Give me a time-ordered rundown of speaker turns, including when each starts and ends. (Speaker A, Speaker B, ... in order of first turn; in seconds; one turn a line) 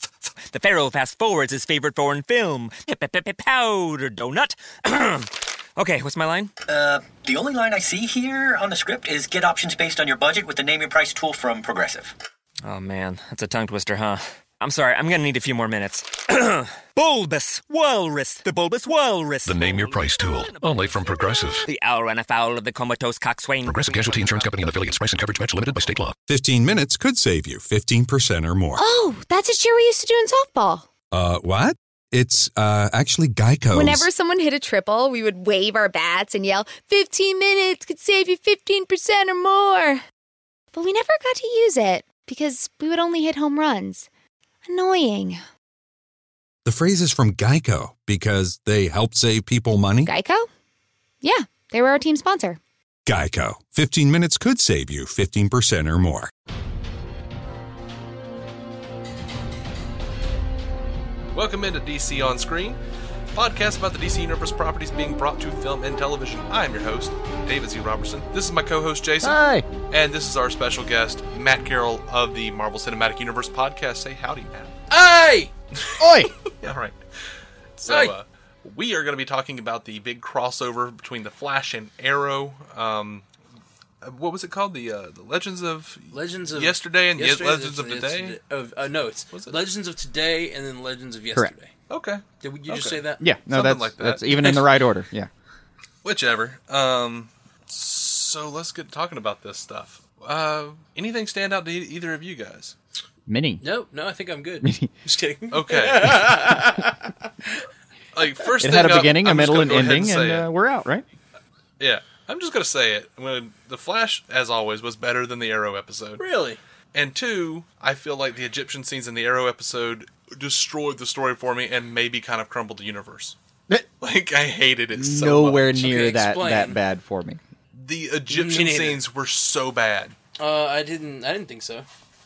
Speaker A: 0.5-6.5
Speaker B: 6.7-12.2
Speaker A: 12.6-24.6
Speaker C: 19.5-21.6
Speaker C: 23.6-26.2
Speaker D: 26.2-28.8
Speaker E: 28.8-30.9
Speaker D: 31.1-34.1
Speaker E: 33.7-40.0
Speaker E: 40.7-44.1
Speaker E: 44.7-45.4
Speaker D: 46.6-50.1
Speaker E: 50.0-50.5
Speaker E: 51.2-52.6
Speaker D: 53.1-56.3
Speaker F: 61.3-62.8
Speaker F: 63.3-74.8
Speaker G: 69.2-69.7
Speaker H: 74.9-75.5
Speaker F: 75.8-77.0
Speaker G: 76.0-76.3
Speaker F: 77.8-83.2
Speaker H: 77.9-78.2
Speaker F: 84.0-88.4
Speaker H: 86.1-91.7
Speaker F: 89.3-89.6
Speaker F: 91.9-94.6
Speaker H: 92.4-93.2
Speaker G: 93.2-95.3
Speaker F: 96.0-102.8
Speaker G: 103.3-103.6
Speaker H: 103.6-107.6
Speaker G: 104.6-104.9
Speaker F: 105.5-106.3
Speaker F: 108.1-110.5
Speaker G: 108.6-111.0
Speaker F: 111.8-116.2
Speaker H: 116.2-116.6
Speaker F: 116.9-123.4
Speaker F: 124.0-126.1
Speaker G: 125.0-127.4
Speaker H: 125.8-126.8
Speaker F: 127.7-130.2
Speaker H: 128.3-129.0
Speaker H: 130.4-131.9